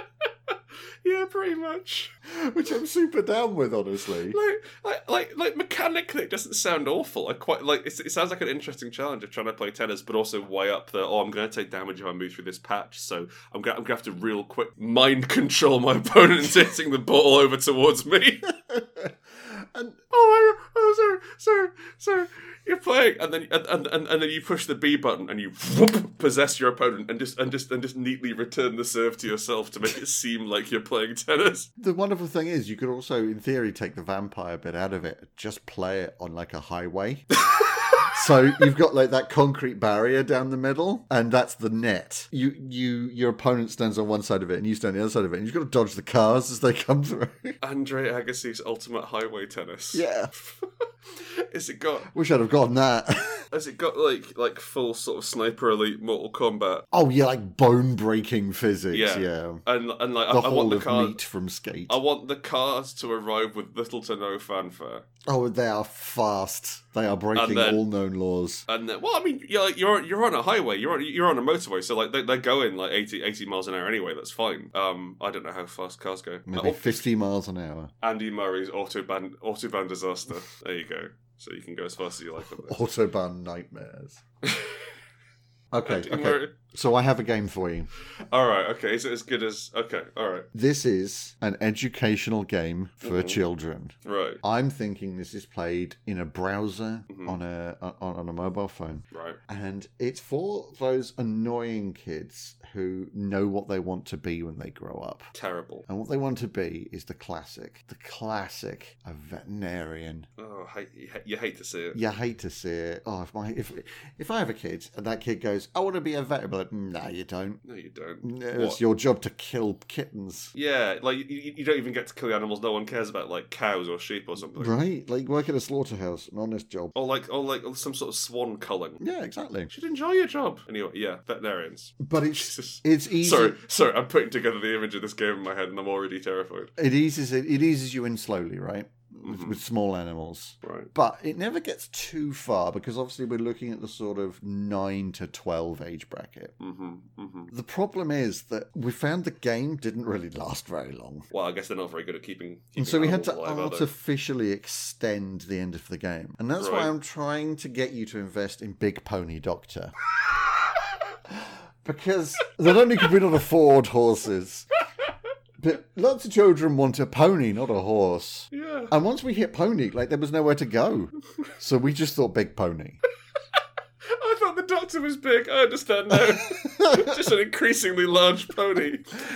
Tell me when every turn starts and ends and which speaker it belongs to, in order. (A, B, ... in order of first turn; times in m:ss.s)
0:01.0-0:02.1 A
0:02.2-0:04.4 B
0:04.3-0:18.6 A
0:18.7-0:20.0 B
0:20.1-0:31.7 A
0:31.8-0:37.3 B
0:37.5-0:38.1 A
0:38.0-0:47.6 B
0:47.6-0:52.1 A
0:49.9-0:50.3 B
0:52.1-0:53.4 B
0:53.5-0:56.9 A
0:56.9-0:59.6 B
0:58.9-1:01.2 A
1:00.3-1:02.0 B
1:01.9-1:05.0 A
1:05.2-1:08.6 B
1:07.3-1:07.8 A
1:08.7-1:17.0 A
1:16.5-1:17.9 B
1:18.0-1:22.8 A
1:22.5-1:24.2 B
1:24.4-1:24.9 A
1:25.7-1:27.9 B
1:25.8-1:26.6 A
1:28.2-1:30.5 A
1:30.5-1:45.3 B
1:33.0-1:33.4 A
1:34.0-1:34.4 A
1:37.1-1:37.4 A
1:39.1-1:39.4 A
1:45.3-1:45.8 A
1:45.8-1:50.3 B
1:50.4-1:52.0 A
1:51.9-1:57.6 B
1:57.6-1:58.8 A
1:58.2-2:00.5 B
2:00.5-2:04.7 A
2:04.5-2:06.9 B
2:06.9-2:09.0 A
2:09.0-2:09.7 B
2:09.7-2:16.7 A
2:12.0-2:13.6 B
2:16.8-2:26.5 B
2:19.2-2:19.6 A
2:20.6-2:20.9 A
2:26.6-2:27.5 A
2:27.5-2:31.3 B
2:31.3-2:33.9 A
2:32.8-2:39.9 B
2:36.6-2:36.9 A
2:41.3-2:44.7 B
2:45.6-2:53.0 B
2:48.5-2:48.9 A
2:54.0-2:59.2 A
2:56.5-2:57.1 B